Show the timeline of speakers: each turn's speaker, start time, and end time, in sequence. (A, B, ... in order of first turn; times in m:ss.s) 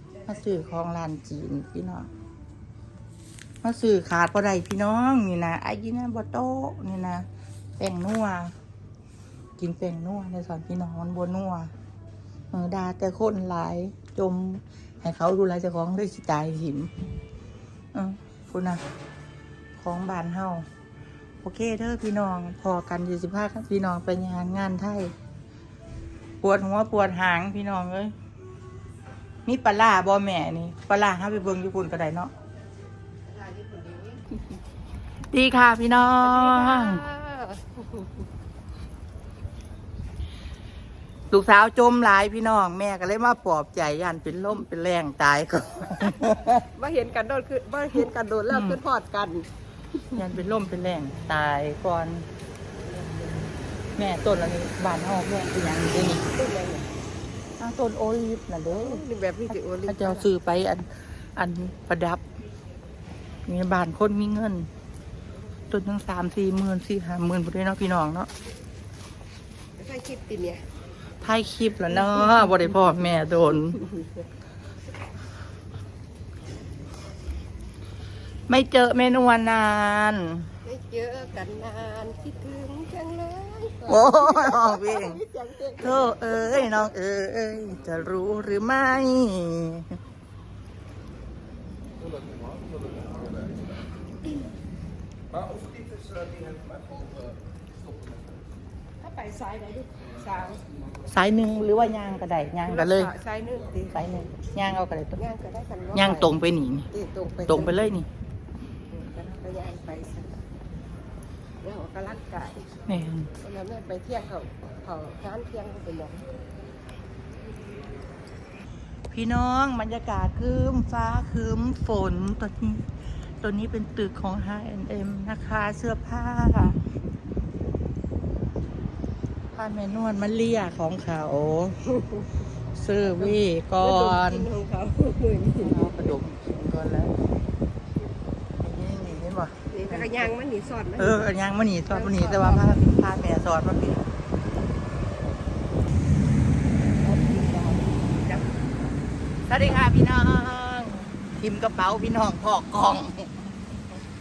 0:00.2-0:02.1 A
0:03.6-0:07.2 A
0:07.8-0:08.5 A
0:09.6-0:11.7 A
0:12.5-0:16.9 A
0:17.9-0:18.8 A
0:19.8-0:20.6 A
0:21.4-0:25.1 A
0:26.4-0:28.1 A
0:29.4-0:32.3 A
0:33.4-0:34.2 B
0:35.3-0:37.0 A
0:36.2-0:38.1 B
0:41.3-0:46.6 A
0:46.7-0:49.5 B
0:48.5-0:48.8 A
0:50.1-0:52.3 A
0:52.8-0:53.5 B
0:54.0-0:56.2 A
0:56.3-0:56.9 B
0:57.6-1:02.2 A
0:58.7-1:00.3 B
1:03.4-1:04.7 A
1:05.7-1:08.3 A
1:09.8-1:10.6 B
1:11.2-1:13.8 A
1:18.5-1:20.5 A
1:20.6-1:26.8 B
1:23.9-1:25.2 A
1:25.8-1:29.9 A
1:39.0-1:40.6 B
1:41.1-1:43.1 A
1:42.6-1:44.0 B
1:43.9-1:45.2 A
1:45.2-1:46.3 B
1:45.9-1:46.9 A
1:46.9-1:47.9 B
1:47.5-1:48.1 A
1:48.9-1:50.3 B
1:51.6-1:52.6 B
1:52.9-1:53.3 A
1:53.4-1:56.3 B
1:59.1-2:02.8 A
2:03.4-2:06.8 A
2:09.5-2:11.8 A
2:12.7-2:14.5 A
2:13.2-2:15.8 B
2:15.6-2:17.1 A
2:18.6-2:20.3 A
2:19.7-2:21.2 B
2:21.0-2:24.0 A
2:21.9-2:22.6 B
2:27.2-2:27.6 B
2:29.5-2:33.3 A